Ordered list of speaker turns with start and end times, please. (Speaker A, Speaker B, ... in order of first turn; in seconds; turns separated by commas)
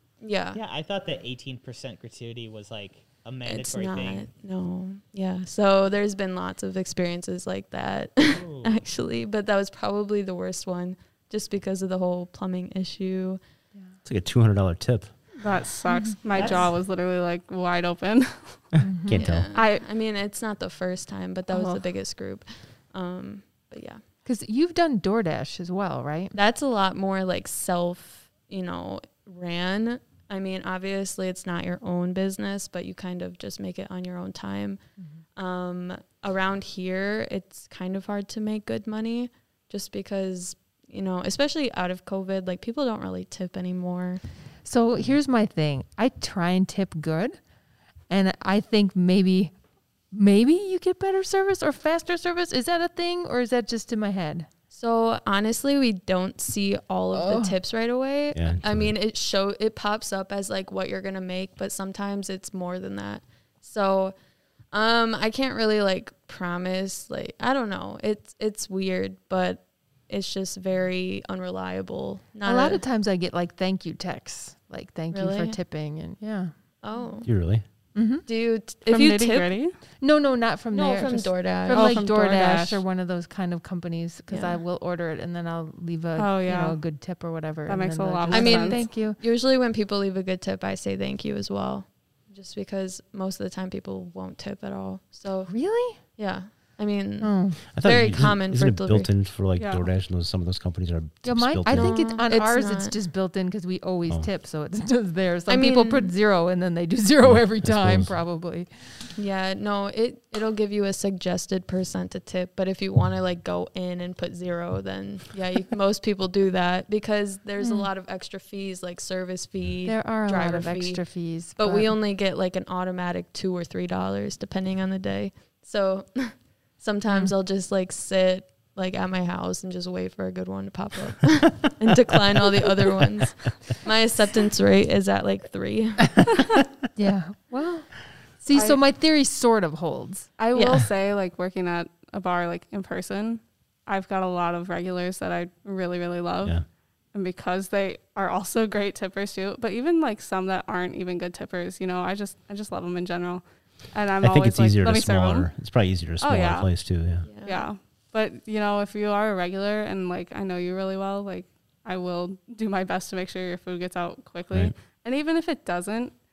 Speaker A: 0.2-0.6, Speaker B: 0.5-4.2, Speaker A: 3.5-13.4, Speaker B: 8.3-8.8, Speaker C: 14.0-15.1, Speaker D: 15.4-18.6, Speaker E: 15.8-16.2, Speaker B: 16.3-16.7, Speaker A: 16.3-16.6, Speaker E: 18.8-19.2, Speaker C: 19.1-19.5, Speaker A: 19.1-24.0, Speaker D: 19.5-19.8, Speaker E: 21.5-21.8, Speaker E: 24.2-26.4, Speaker A: 26.3-34.8, Speaker A: 35.4-44.2, Speaker E: 44.6-47.4, Speaker E: 48.1-49.5, Speaker E: 50.1-54.5, Speaker A: 54.7-64.1, Speaker E: 57.1-57.5, Speaker C: 58.3-58.9, Speaker A: 64.7-72.8, Speaker E: 72.4-76.5, Speaker A: 75.1-75.6, Speaker A: 76.8-77.3, Speaker C: 77.2-77.6, Speaker E: 77.9-78.2, Speaker A: 78.2-79.5, Speaker D: 78.9-79.8, Speaker E: 80.0-89.2, Speaker A: 80.7-82.0, Speaker D: 81.7-82.8, Speaker A: 84.3-84.6, Speaker D: 86.2-86.8, Speaker D: 87.7-88.8, Speaker A: 88.3-95.5, Speaker E: 95.5-96.0, Speaker A: 96.1-99.1, Speaker E: 97.2-97.6, Speaker C: 97.7-102.0, Speaker D: 99.5-99.9, Speaker E: 101.2-108.7, Speaker A: 101.7-102.9, Speaker A: 105.5-106.1, Speaker C: 107.2-108.1, Speaker A: 109.2-121.0, Speaker E: 117.6-117.9, Speaker E: 119.8-121.9, Speaker A: 121.5-136.2, Speaker E: 136.9-140.3, Speaker D: 138.5-138.8, Speaker D: 140.4-146.6, Speaker A: 140.5-140.8, Speaker D: 147.1-155.5, Speaker C: 154.2-157.3, Speaker D: 156.2-156.7, Speaker A: 157.2-157.6, Speaker D: 157.4-166.1